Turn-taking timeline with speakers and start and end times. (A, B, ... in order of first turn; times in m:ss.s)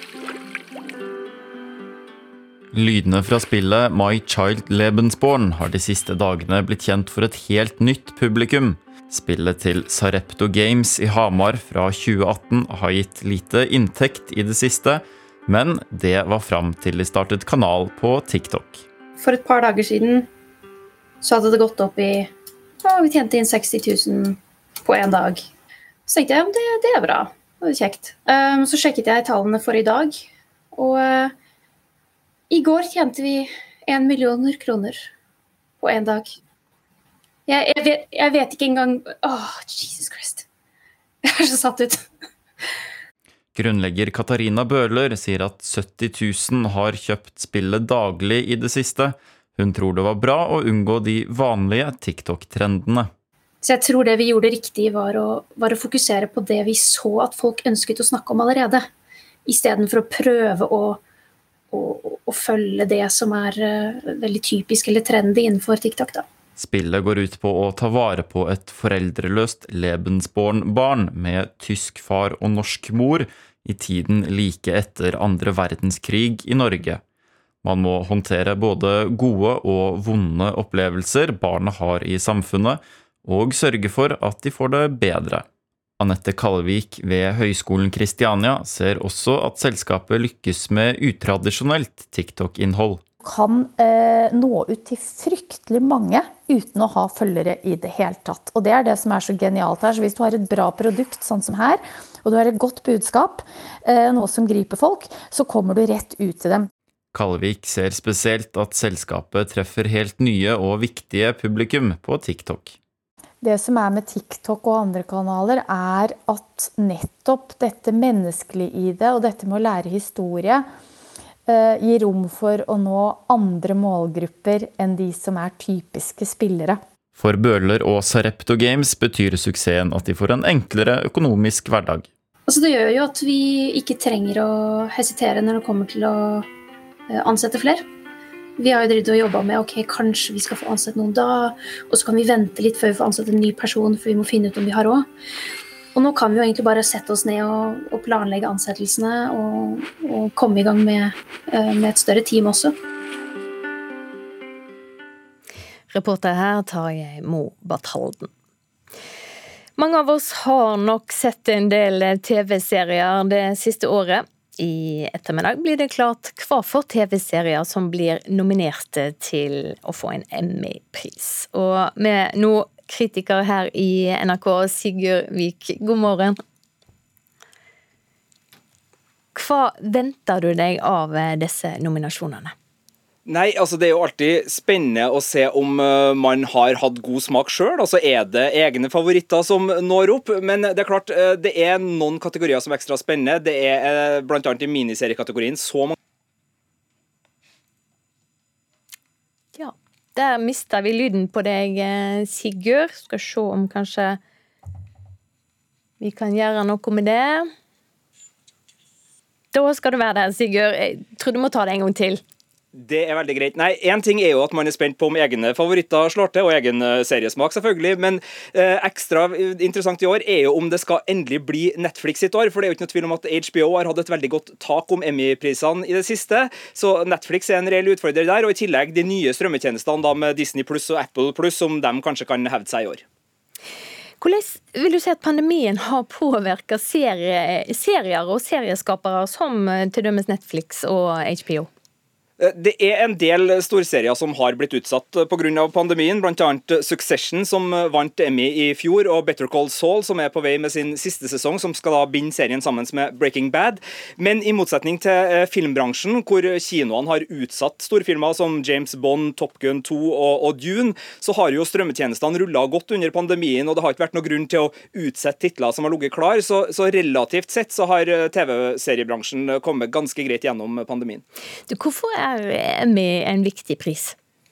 0:02.7-0:18.8 A
0:19.2-0:20.3 B
0:21.2-0:22.3 B
0:22.8-0:25.5 B
0:26.1-0:31.3 B
0:32.5-0:35.0 B
0:35.8-0:36.3 B
0:37.5-0:40.5 B
0:41.2-0:42.0 B
0:43.6-0:53.1 A
0:53.6-0:58.9 B
0:59.4-1:01.0 B
1:01.7-1:06.2 B
1:06.6-1:17.0 A
1:17.6-1:25.4 A
1:26.0-1:33.0 A
1:33.2-1:46.7 C
1:47.1-1:52.8 A
1:53.4-2:00.6 C
2:01.5-2:06.8 C
2:07.2-2:12.1 A
2:12.5-2:16.5 B
2:17.1-2:17.8 B
2:18.6-2:25.1 B
2:25.9-2:32.8 B
2:35.9-2:38.3 D
2:39.8-2:56.4 D
2:59.3-3:02.5 D
3:03.2-3:15.9 E
3:19.6-3:24.2 D
3:26.0-3:27.5 D
3:29.5-3:32.2 D
3:32.8-3:53.0 E
3:54.2-4:01.7 D
4:02.4-4:31.2 E
4:31.7-4:34.2 D